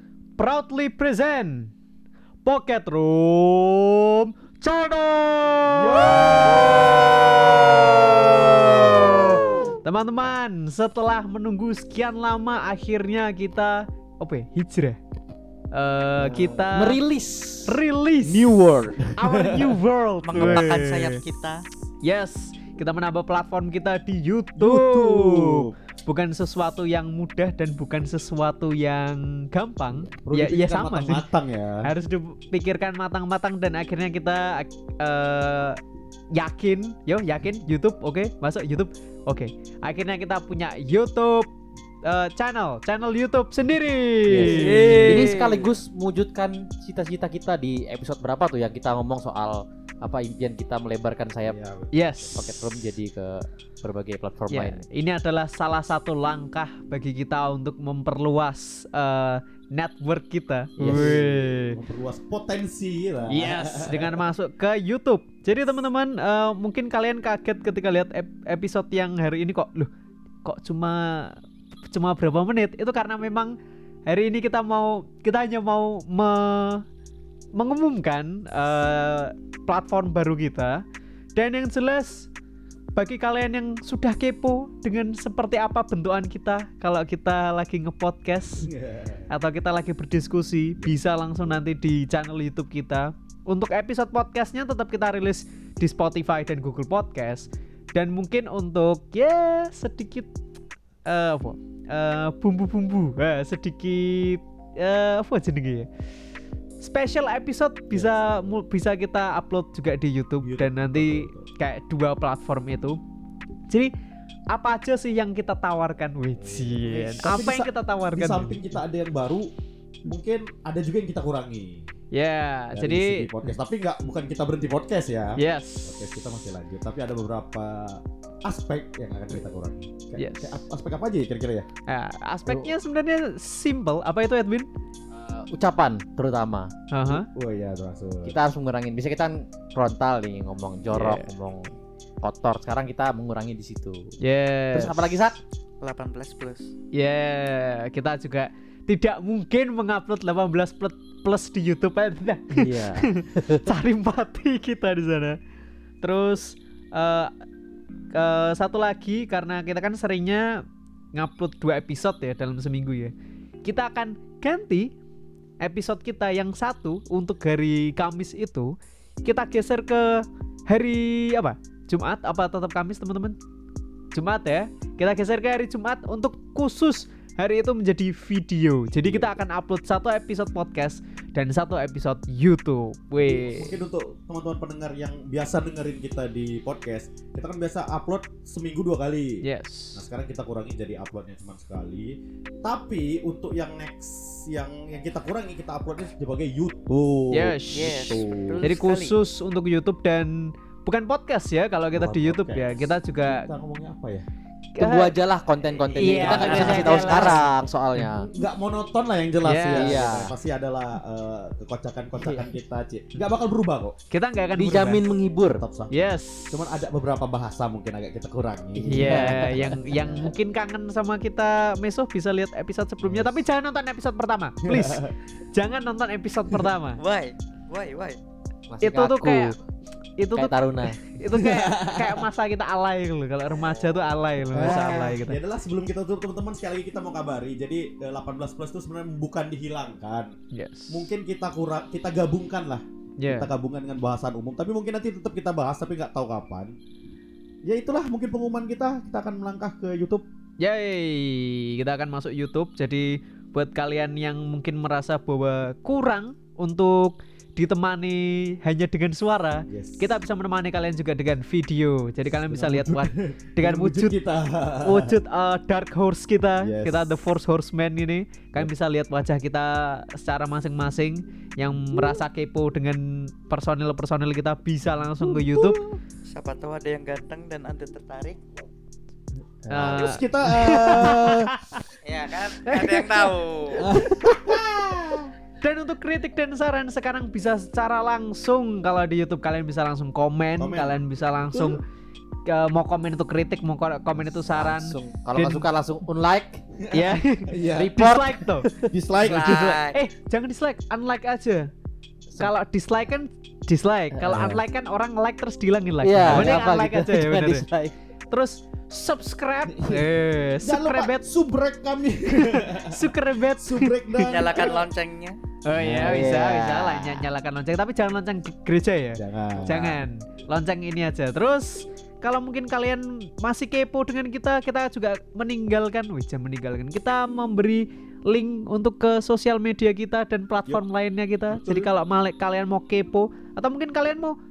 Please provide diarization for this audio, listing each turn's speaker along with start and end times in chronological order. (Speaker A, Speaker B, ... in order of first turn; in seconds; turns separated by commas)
Speaker A: 0.4-1.7, Speaker A: 2.4-15.0, Speaker B: 5.7-9.7, Speaker A: 15.7-17.0, Speaker C: 16.5-17.8, Speaker A: 17.7-18.5, Speaker B: 18.2-19.8, Speaker A: 19.2-21.2, Speaker D: 20.2-21.7, Speaker B: 20.4-20.7, Speaker A: 22.0-31.3, Speaker B: 24.6-25.7, Speaker B: 30.2-31.9, Speaker A: 31.8-35.8, Speaker A: 36.3-41.5, Speaker A: 42.0-45.4, Speaker C: 44.3-51.6, Speaker B: 44.3-45.5, Speaker B: 51.5-52.5, Speaker A: 51.9-52.5, Speaker C: 52.4-54.8, Speaker A: 54.5-61.8, Speaker C: 60.8-61.5, Speaker B: 60.8-64.2, Speaker C: 63.3-63.7, Speaker A: 63.4-69.9, Speaker A: 70.4-73.5, Speaker A: 74.1-76.8, Speaker A: 77.5-80.8, Speaker A: 81.3-82.3, Speaker A: 83.0-88.7, Speaker B: 88.6-89.3, Speaker A: 89.3-100.3, Speaker A: 101.1-105.9, Speaker A: 106.8-113.0, Speaker B: 107.9-108.5, Speaker B: 110.4-111.5, Speaker A: 114.5-118.8, Speaker B: 116.4-119.5, Speaker B: 120.0-121.9, Speaker A: 122.1-123.3, Speaker B: 122.7-131.7, Speaker A: 125.4-126.0, Speaker A: 130.2-130.6, Speaker A: 131.9-134.7, Speaker C: 132.5-132.7, Speaker C: 135.1-136.7, Speaker A: 136.9-137.3, Speaker B: 137.1-138.3, Speaker C: 138.2-144.2, Speaker A: 140.9-141.3, Speaker A: 144.2-145.0, Speaker C: 144.7-145.4, Speaker D: 145.8-146.7, Speaker A: 146.9-155.4, Speaker C: 152.5-153.7, Speaker A: 156.0-157.3, Speaker A: 158.1-163.1, Speaker A: 163.6-164.9, Speaker A: 165.6-173.4, Speaker A: 174.1-183.8, Speaker B: 178.9-179.3, Speaker B: 183.2-189.4, Speaker A: 189.4-190.1, Speaker B: 189.9-192.1, Speaker B: 192.6-198.7, Speaker A: 197.3-203.5, Speaker D: 197.7-199.2, Speaker B: 201.9-204.2, Speaker A: 204.8-205.2, Speaker C: 204.8-208.3, Speaker B: 205.9-207.3, Speaker A: 205.9-207.5, Speaker D: 206.0-207.4, Speaker B: 208.0-213.9, Speaker A: 209.4-210.0, Speaker C: 209.7-210.4, Speaker C: 212.2-212.5, Speaker A: 214.1-215.0, Speaker C: 214.6-215.6, Speaker B: 215.6-220.2, Speaker A: 215.9-216.6, Speaker C: 218.8-220.3, Speaker A: 218.9-227.0, Speaker B: 223.0-223.4, Speaker B: 224.7-225.1, Speaker D: 227.0-228.2, Speaker C: 228.7-229.6, Speaker A: 228.8-229.6, Speaker A: 230.2-235.4, Speaker C: 230.3-231.0, Speaker B: 231.2-232.3, Speaker B: 234.5-240.3, Speaker A: 240.5-241.1, Speaker B: 240.9-246.7, Speaker A: 243.2-243.5, Speaker B: 247.7-250.2, Speaker A: 250.6-264.2, Speaker B: 259.7-260.1, Speaker B: 262.5-265.2, Speaker A: 264.8-275.8, Speaker B: 266.6-267.1, Speaker B: 271.8-272.2, Speaker B: 275.2-276.0, Speaker D: 276.3-278.4, Speaker B: 279.6-281.5, Speaker A: 279.7-281.8, Speaker D: 282.0-283.9, Speaker A: 282.6-284.6, Speaker B: 283.8-285.3, Speaker A: 285.6-291.8, Speaker B: 290.6-291.8, Speaker A: 292.5-295.7, Speaker C: 294.3-296.6, Speaker B: 296.9-297.9, Speaker A: 296.9-298.7, Speaker C: 297.7-298.7, Speaker B: 298.8-299.8, Speaker D: 299.2-300.0, Speaker A: 299.2-301.7, Speaker A: 302.4-307.7, Speaker C: 304.1-304.6, Speaker C: 306.0-307.9, Speaker B: 306.2-306.6, Speaker A: 308.3-311.2, Speaker B: 309.7-314.9, Speaker A: 312.3-314.3, Speaker D: 314.2-315.4, Speaker A: 315.6-334.4, Speaker B: 315.8-316.2, Speaker C: 315.8-317.2, Speaker B: 319.2-320.0, Speaker D: 319.7-319.9, Speaker B: 331.5-331.9